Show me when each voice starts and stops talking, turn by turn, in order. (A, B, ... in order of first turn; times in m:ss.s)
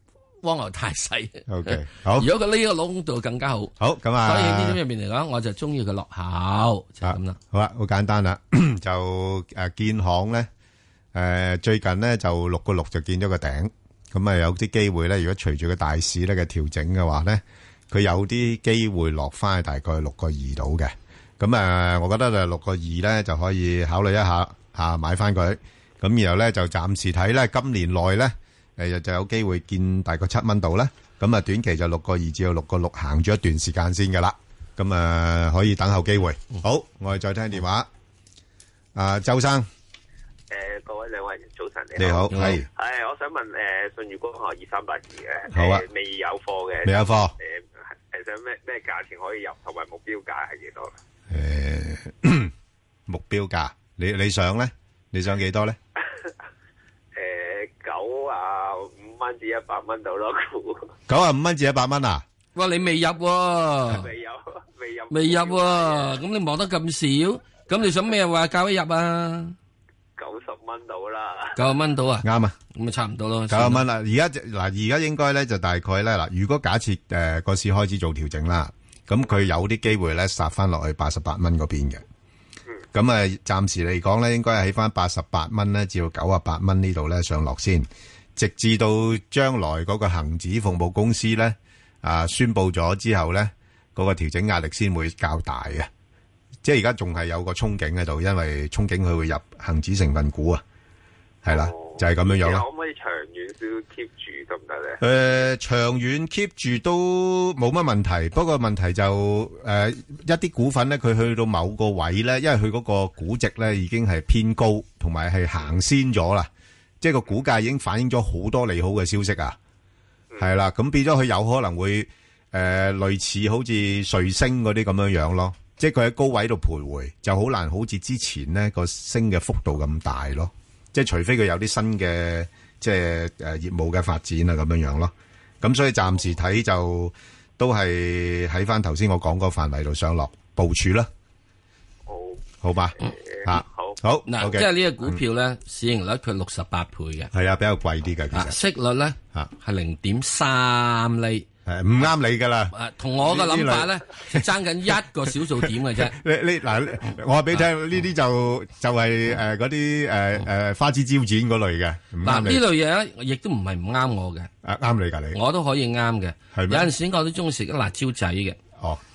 0:00.4-0:07.4 A
0:01.5-0:02.3 B
0:03.8-0:04.8 B
0:07.0-0:10.5 B
0:11.1-0:37.9 B
0:38.9-0:39.7 B
0:40.5-0:50.9 C
0:42.0-0:42.6 B
0:42.3-0:42.6 A
0:45.5-0:45.8 B
0:46.8-0:47.3 B
0:51.3-0:52.5 B
0:53.1-0:55.8 B
0:57.2-1:00.9 C
1:01.1-1:02.2 B
1:02.6-1:04.1 A
1:03.9-1:06.2 C
1:05.1-1:09.6 A
1:10.2-1:11.6 C
1:11.5-1:13.8 A
1:12.2-1:12.6 B
1:13.5-1:22.0 B
1:22.9-1:35.9 B
1:36.6-1:40.6 B
1:41.4-1:42.6 B
1:41.4-1:45.0 C
1:45.0-1:56.5 B
1:57.0-1:59.6 B
2:00.4-2:21.1 B
2:22.1-2:22.4 C
2:22.6-2:25.2 B
2:23.0-2:24.0 C
2:24.2-2:27.3 A
2:27.3-2:28.6 B
2:28.3-2:31.5 A
2:31.6-2:34.4 B
2:32.7-2:36.2 A
2:35.6-2:42.6 B
2:42.2-2:44.5 A
2:44.6-2:45.4 B
2:45.3-2:48.6 A
2:46.5-2:46.9 B